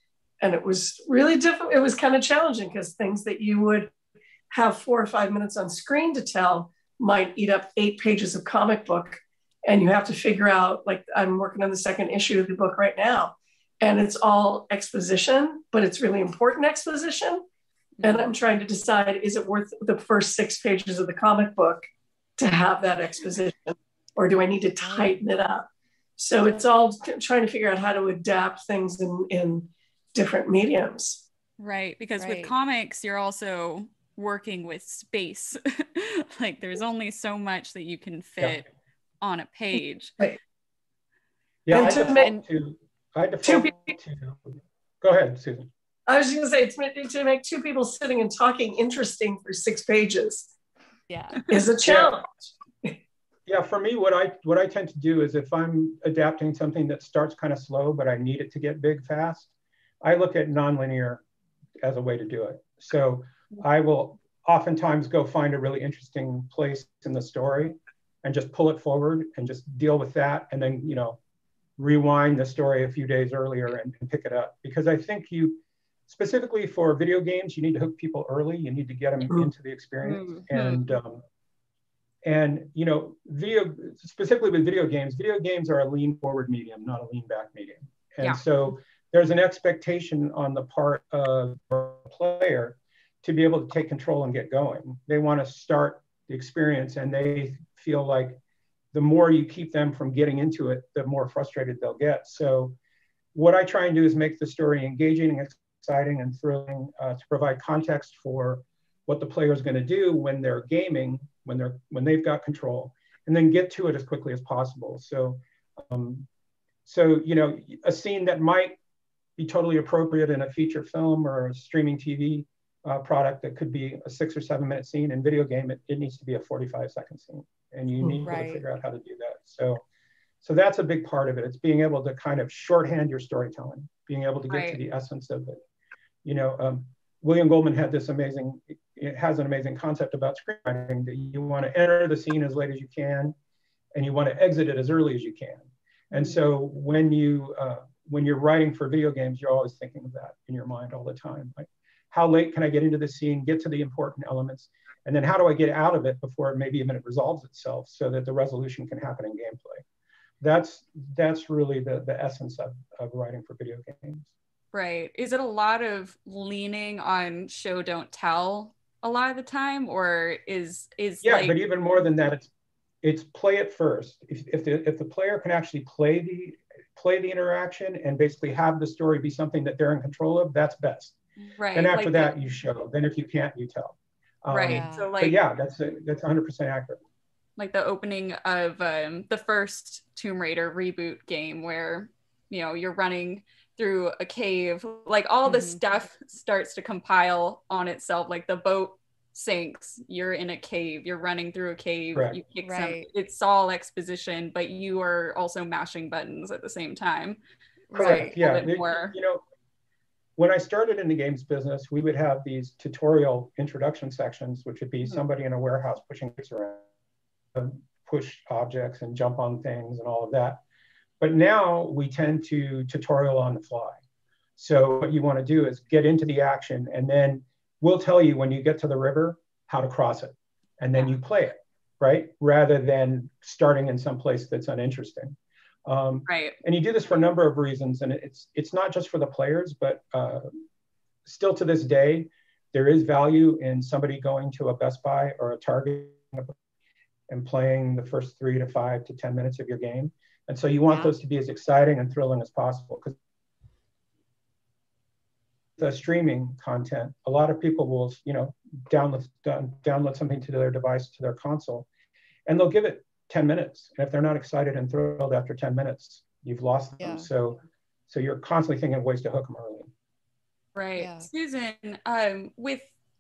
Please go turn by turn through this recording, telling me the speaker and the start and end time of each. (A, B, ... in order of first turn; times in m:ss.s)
0:00.4-0:03.9 A
0:04.5-0:17.4 A
0:18.0-0:21.8 A
0:22.4-0:25.7 A
0:24.8-0:25.2 B
0:26.2-0:31.2 A
0:31.6-0:38.6 C
0:32.2-0:32.5 B
0:39.2-0:40.2 C
0:41.6-0:44.5 D
0:41.7-0:42.3 A
0:41.7-0:42.4 B
0:43.4-0:44.0 A
0:45.0-0:45.7 D
0:46.1-0:50.5 A
0:51.1-0:51.4 B
0:51.5-0:53.0 A
0:51.8-0:52.1 D
0:53.5-0:59.5 D
1:00.0-1:01.2 D
1:01.8-1:11.2 D
1:11.8-1:21.2 D
1:20.5-1:20.8 C
1:22.2-1:38.4 D
1:38.9-1:42.7 D
1:43.3-1:56.3 D
1:56.8-1:58.8 D
1:59.4-2:09.8 D
2:08.2-2:08.6 B
2:10.4-2:15.6 D
2:14.5-2:14.8 C
2:16.2-2:23.3 D
2:23.9-2:39.8 D
2:40.4-2:44.3 D
2:44.7-2:51.5 C
2:51.2-2:52.5 D
2:53.0-3:01.1 D
3:01.6-3:02.3 C
3:01.7-3:07.0 D
3:04.5-3:05.4 C
3:04.7-3:05.1 B
3:07.6-3:27.4 C
3:15.4-3:15.8 B
3:22.1-3:22.4 D
3:22.6-3:23.1 B
3:27.9-3:28.4 B
3:27.9-3:29.1 C
3:27.9-3:29.4 D
3:30.4-3:36.8 D
3:37.5-3:40.6 D
3:41.2-3:44.0 D
3:44.6-4:00.5 D
3:56.3-3:56.6 C
4:01.2-4:06.5 D
4:07.3-4:13.2 D
4:15.8-4:21.9 D
4:22.5-4:29.9 D
4:27.0-4:27.2 B
4:30.7-4:32.9 C
4:31.0-4:31.3 B